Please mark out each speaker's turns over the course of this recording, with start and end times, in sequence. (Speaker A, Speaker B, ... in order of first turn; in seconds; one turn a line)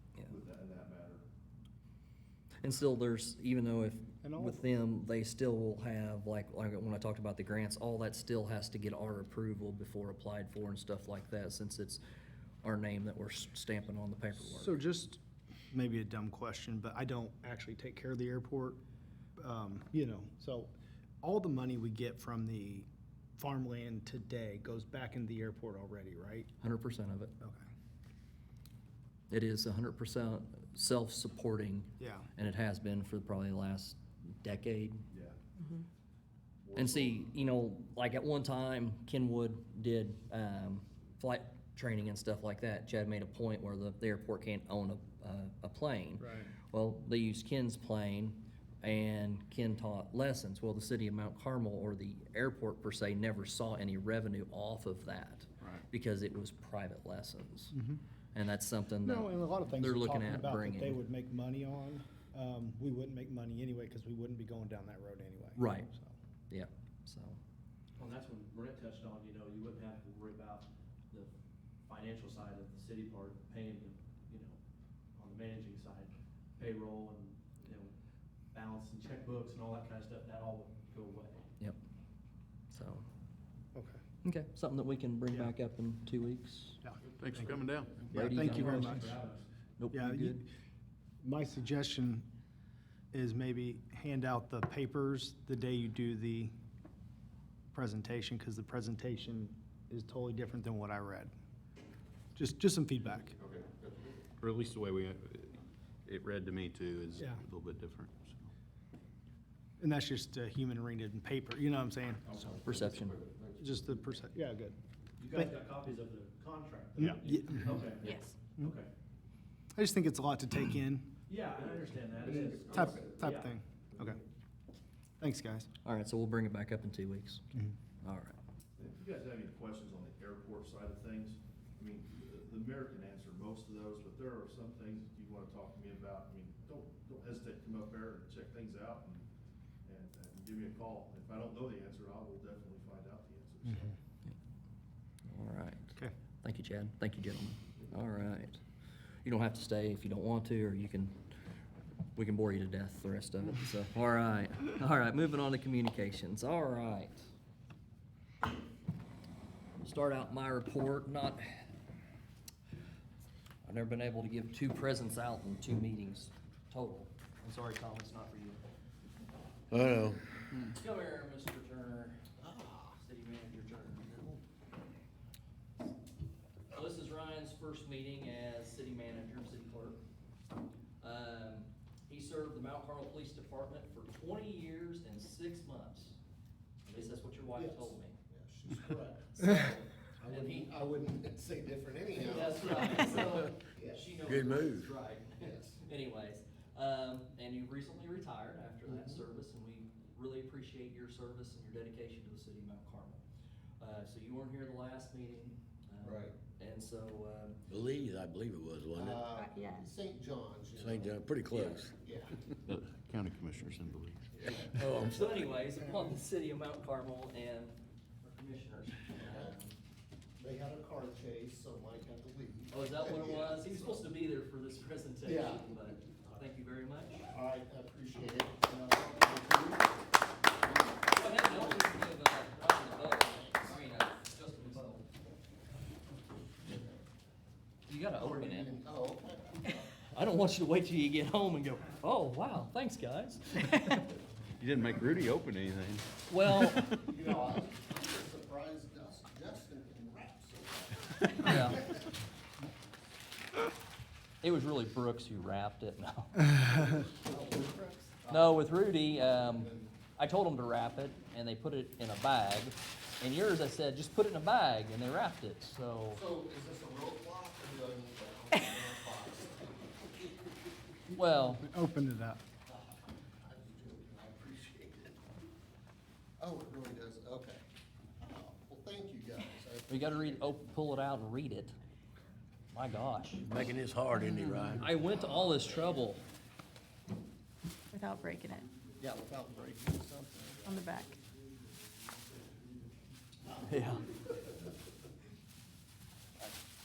Speaker A: 0.2-1.2
Speaker B: 2.6-12.0
Speaker C: 4.2-4.7
Speaker B: 12.6-14.8
Speaker C: 14.4-15.2
Speaker C: 15.7-18.8
Speaker C: 19.4-22.9
Speaker C: 23.4-26.5
Speaker B: 26.6-27.3
Speaker B: 29.3-35.0
Speaker C: 32.0-32.3
Speaker A: 35.1-35.4
Speaker A: 36.6-37.3
Speaker B: 36.7-57.7
Speaker C: 46.2-46.5
Speaker C: 57.7-58.0
Speaker B: 58.3-61.0
Speaker C: 59.0-66.2
Speaker B: 65.6-65.9
Speaker B: 66.5-67.4
Speaker D: 68.0-71.3
Speaker D: 71.9-74.6
Speaker D: 75.2-77.9
Speaker D: 78.5-81.4
Speaker B: 82.7-83.0
Speaker C: 83.8-84.0
Speaker B: 84.2-86.8
Speaker C: 86.8-87.5
Speaker E: 87.2-88.1
Speaker D: 87.9-89.5
Speaker C: 88.1-89.2
Speaker B: 88.1-89.0
Speaker B: 89.8-90.4
Speaker C: 89.9-90.5
Speaker C: 91.2-92.3
Speaker C: 93.1-96.5
Speaker C: 97.7-101.3
Speaker C: 102.3-103.4
Speaker F: 103.4-104.2
Speaker E: 104.4-108.5
Speaker C: 107.2-107.4
Speaker C: 109.8-112.6
Speaker F: 112.5-113.5
Speaker B: 112.6-113.2
Speaker C: 113.6-114.8
Speaker D: 115.2-118.9
Speaker C: 117.0-117.8
Speaker G: 118.0-118.3
Speaker C: 119.8-121.1
Speaker D: 121.3-124.1
Speaker F: 122.2-123.2
Speaker C: 122.7-124.2
Speaker C: 125.2-125.7
Speaker B: 125.8-127.4
Speaker B: 128.0-128.4
Speaker A: 128.8-139.2
Speaker A: 139.8-143.9
Speaker C: 143.7-143.9
Speaker B: 145.2-148.6
Speaker B: 149.2-151.2
Speaker B: 152.2-157.2
Speaker B: 159.8-161.6
Speaker B: 163.6-168.6
Speaker H: 169.7-170.2
Speaker B: 170.6-172.2
Speaker F: 172.4-173.0
Speaker B: 173.0-174.1
Speaker F: 174.0-174.4
Speaker B: 176.7-180.0
Speaker B: 181.0-186.2
Speaker B: 186.9-188.2
Speaker F: 187.5-194.2
Speaker B: 189.3-190.7
Speaker B: 192.2-203.2
Speaker H: 194.2-194.9
Speaker F: 195.4-195.8
Speaker F: 198.9-199.2
Speaker B: 203.8-207.6
Speaker F: 206.0-206.3
Speaker H: 207.7-209.3
Speaker F: 208.9-211.2
Speaker G: 209.4-209.9
Speaker H: 210.8-211.9
Speaker B: 211.5-211.9
Speaker F: 212.0-212.3
Speaker E: 212.7-214.9
Speaker H: 214.4-215.5
Speaker F: 214.4-214.7
Speaker B: 215.0-219.8
Speaker F: 219.2-219.6
Speaker F: 220.4-224.0
Speaker B: 222.7-227.3
Speaker F: 225.2-226.5
Speaker F: 227.3-231.9
Speaker B: 231.1-235.0
Speaker F: 233.0-233.8
Speaker B: 237.9-238.8
Speaker F: 238.2-240.1
Speaker B: 240.1-244.1
Speaker E: 244.6-247.0
Speaker B: 246.3-246.9
Speaker F: 247.0-252.1
Speaker B: 251.4-251.8
Speaker B: 254.4-256.4
Speaker F: 256.6-259.9
Speaker B: 258.3-266.2
Speaker F: 266.1-270.4
Speaker B: 271.1-271.6
Speaker C: 271.6-272.4
Speaker F: 272.7-275.2
Speaker F: 276.4-277.6
Speaker F: 278.2-280.6
Speaker B: 279.9-281.7
Speaker B: 282.7-283.4
Speaker H: 283.4-284.9
Speaker B: 284.8-286.2
Speaker F: 285.3-286.0
Speaker G: 287.9-288.7
Speaker F: 288.9-291.0
Speaker G: 290.6-291.2
Speaker B: 293.6-294.1